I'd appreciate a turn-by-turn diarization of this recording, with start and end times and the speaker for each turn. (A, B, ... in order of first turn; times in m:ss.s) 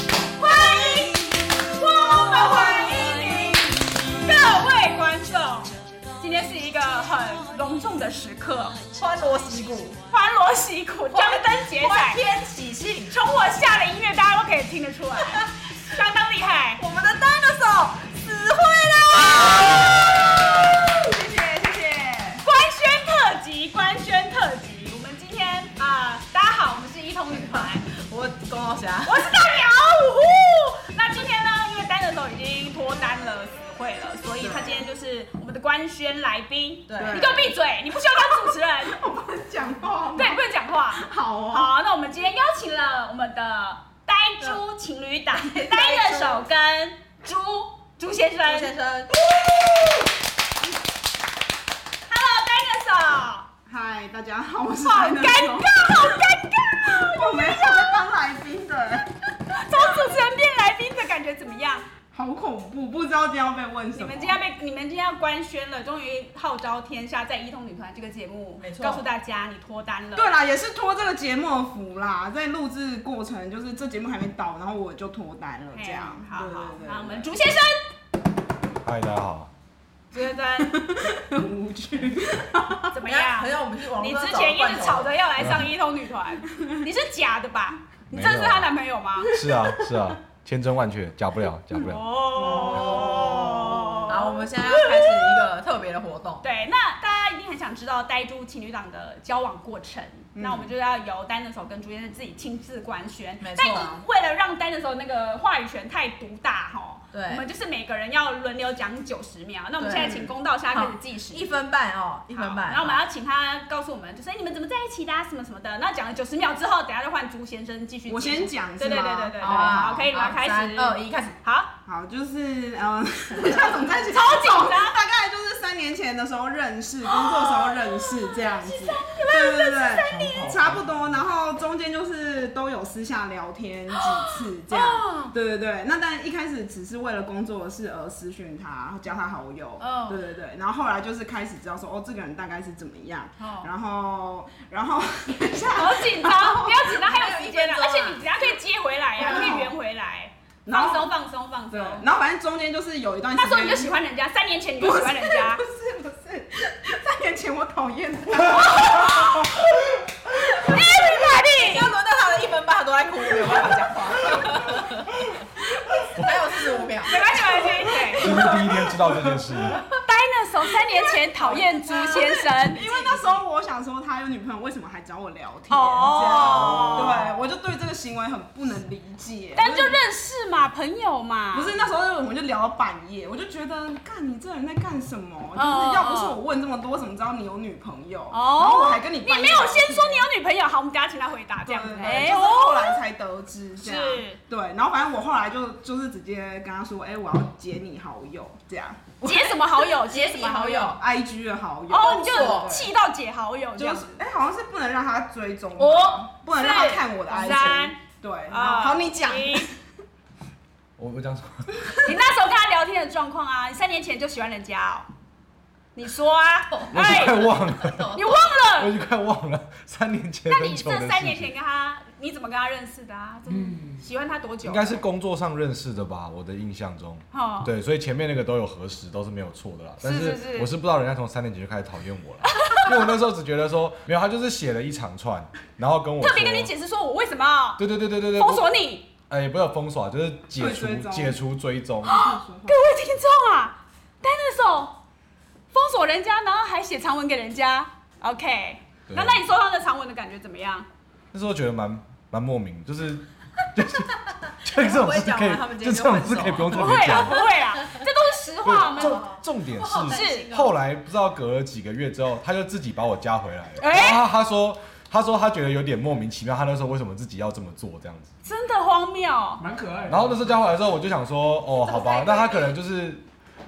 0:00.4-0:08.8 A
0:00.5-0:01.2 B
0:02.2-0:03.6 B
0:02.4-0:02.9 C
0:09.0-0:10.0 B
0:10.1-0:12.2 A
0:11.1-0:13.3 B
0:13.1-0:16.8 A
0:16.8-0:20.9 B
0:19.5-0:19.8 A
0:20.9-0:22.4 C
0:22.4-0:27.9 A
0:27.3-0:29.4 B
0:29.0-0:39.0 A
0:34.4-0:34.8 C
0:36.9-0:37.3 B
0:36.9-0:37.5 C
0:38.5-0:40.4 C
0:40.2-0:48.7 A
0:41.0-0:41.7 C
0:45.4-0:46.4 B
0:48.5-0:49.1 B
0:49.3-0:50.0 C
0:52.1-0:53.5 A
0:53.7-0:56.2 C
0:54.8-0:57.9 A
0:56.8-0:59.1 C
0:59.5-1:01.9 A
1:02.1-1:04.4 C
1:04.0-1:10.3 A
1:08.6-1:09.0 B
1:10.2-1:17.3 C
1:15.7-1:17.9 A
1:18.8-1:19.5 D
1:20.1-1:20.8 A
1:20.6-1:22.9 C
1:22.9-1:29.3 A
1:23.0-1:25.2 B
1:28.1-1:28.7 D
1:29.3-1:30.1 C
1:29.3-1:32.0 D
1:31.8-1:35.4 A
1:32.4-1:34.2 C
1:32.4-1:36.4 B
1:36.4-1:51.4 A
1:40.4-1:40.7 C
1:43.4-1:44.0 B
1:47.1-1:47.4 B
1:49.8-1:53.0 B
1:52.3-2:01.7 A
1:58.1-1:59.9 C
1:59.4-2:01.4 B
2:01.9-2:26.8 C
2:04.1-2:05.0 A
2:07.1-2:10.5 A
2:10.1-2:11.2 E
2:14.7-2:15.3 A
2:14.8-2:15.3 B
2:19.8-2:20.2 B
2:23.4-2:23.7 B
2:25.8-2:32.1 A
2:26.8-2:28.3 B
2:29.2-2:29.7 B
2:29.2-2:29.7 C
2:30.7-2:31.1 C
2:31.7-2:34.0 C
2:33.3-2:35.6 A
2:34.8-2:39.7 C
2:38.5-2:39.6 A
2:40.5-2:40.8 C
2:40.6-2:41.9 A
2:41.6-2:45.3 B
2:45.9-2:46.3 C
2:46.2-2:47.2 B
2:47.0-2:48.6 A
2:47.1-2:48.6 C
2:48.2-2:49.8 D
2:50.0-2:52.8 A
2:51.4-2:53.4 B
2:51.5-3:00.0 C
2:55.7-2:57.2 A
2:56.1-2:57.2 B
2:59.6-3:01.7 A
3:01.5-3:10.3 C
3:05.6-3:06.4 A
3:08.3-3:13.0 A
3:11.6-3:19.7 C
3:13.8-3:14.4 A
3:19.2-3:20.9 A
3:20.1-3:21.0 B
3:20.9-3:22.9 C
3:21.9-3:24.2 A
3:22.0-3:22.7 B
3:23.8-3:29.8 C
3:25.8-3:29.7 A
3:31.0-3:31.7 D
3:32.0-3:35.1 A
3:36.0-3:37.5 A
3:36.7-3:38.3 B
3:36.9-3:38.2 D
3:38.1-3:39.0 A
3:38.8-3:41.5 D
3:40.5-3:45.0 A
3:43.7-3:44.0 E
3:44.6-3:56.7 D
3:47.3-3:47.7 A
3:50.0-3:50.7 A
3:52.4-3:53.0 A
3:56.2-3:59.1 A
3:57.8-3:58.7 D
3:59.3-4:02.2 D
4:00.6-4:01.4 C
4:02.0-4:05.0 A
4:02.1-4:02.8 C
4:05.7-4:10.9 A
4:09.1-4:09.4 D
4:11.3-4:17.4 D
4:14.5-4:18.0 B
4:16.7-4:19.2 A
4:18.6-4:28.3 D
4:18.9-4:20.7 B
4:20.1-4:20.5 A
4:23.8-4:24.2 A
4:28.4-4:29.6 A
4:29.6-4:30.5 E
4:30.1-4:33.3 D
4:31.8-4:32.7 A